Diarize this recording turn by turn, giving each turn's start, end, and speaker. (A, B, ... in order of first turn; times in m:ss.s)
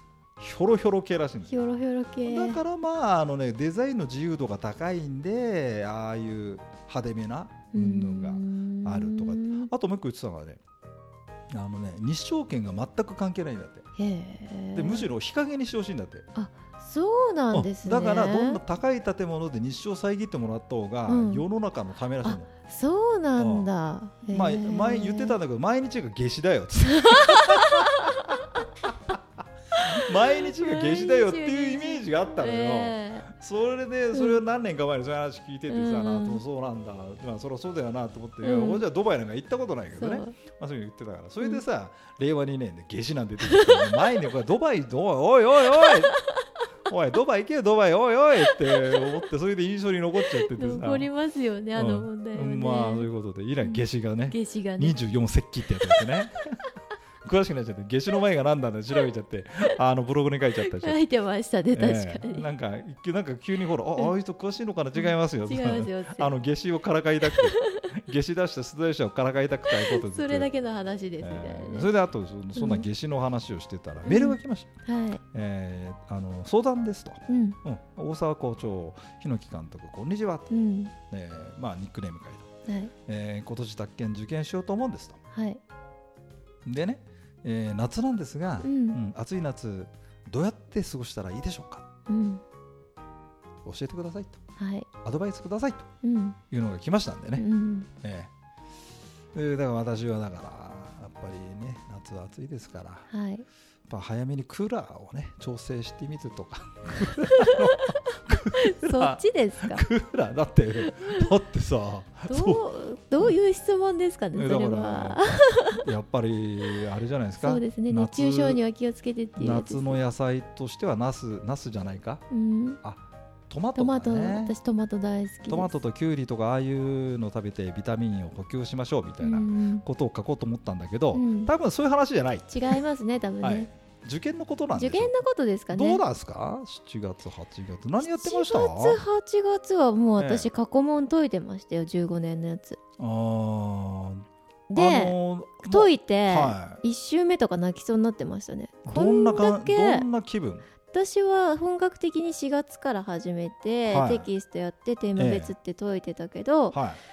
0:00.4-0:01.6 A
0:01.5-0:02.6 B
0:02.2-0:10.6 A
0:07.7-0:09.7 B
0:11.5-0:13.9 A
0:14.0-0:15.1 B
0:14.8-0:16.3 A
0:16.4-0:18.6 B
0:17.5-0:22.5 A
0:21.1-0:21.4 B
0:22.2-0:25.4 B
0:23.4-0:23.7 A
0:24.3-0:27.8 A
0:27.0-0:28.4 B
0:29.8-0:33.3 B
0:29.8-0:46.1 A
0:34.1-0:34.4 B
0:35.7-0:36.4 B
0:38.4-0:38.8 B
0:40.0-0:40.4 B
0:43.4-0:44.0 B
0:45.9-0:46.1 B
0:46.9-0:51.1 A
0:48.5-0:49.1 B
0:50.3-0:53.1 B
0:51.7-0:56.5 A
0:53.6-0:55.0 B
0:57.2-1:01.0 A
1:00.6-1:02.5 B
1:01.7-1:10.5 A
1:05.0-1:06.3 B
1:07.3-1:07.9 B
1:09.7-1:11.9 B
1:11.2-1:14.7 A
1:12.6-1:12.9 B
1:14.1-1:15.2 B
1:15.3-1:20.5 A
1:17.3-1:17.6 B
1:20.5-1:20.9 B
1:21.1-1:22.5 A
1:22.7-1:22.9 B
1:23.1-1:25.2 A
1:25.3-1:25.6 B
1:26.7-1:31.9 A
1:28.6-1:29.0 B
1:32.1-1:32.4 B
1:33.6-1:34.4 A
1:34.6-1:34.9 B
1:35.0-1:35.9 A
1:36.0-1:36.4 B
1:36.5-1:37.4 A
1:37.4-1:37.9 B
1:38.0-1:38.3 A
1:39.3-1:43.1 A
1:43.1-1:43.4 B
1:43.9-1:52.6 A
1:47.2-1:48.0 B
1:48.5-1:49.8 B
1:50.8-1:51.2 B
1:52.3-1:55.8 B
1:54.4-1:58.6 A
1:57.4-2:00.0 B
1:59.4-2:02.2 A
2:02.3-2:02.8 B
2:02.8-2:04.5 A
2:03.8-2:05.8 B
2:05.5-2:12.8 A
2:09.2-2:09.8 B
2:11.1-2:11.5 B
2:12.5-2:13.7 B
2:13.4-2:15.2 A
2:14.8-2:16.0 B
2:15.7-2:19.0 A
2:18.0-2:22.8 B
2:20.2-2:20.5 A
2:23.0-2:26.8 A
2:24.7-2:30.1 B
2:28.8-2:30.6 A
2:30.9-2:36.8 B
2:33.9-2:34.3 A
2:35.2-2:35.5 A
2:36.7-2:37.0 A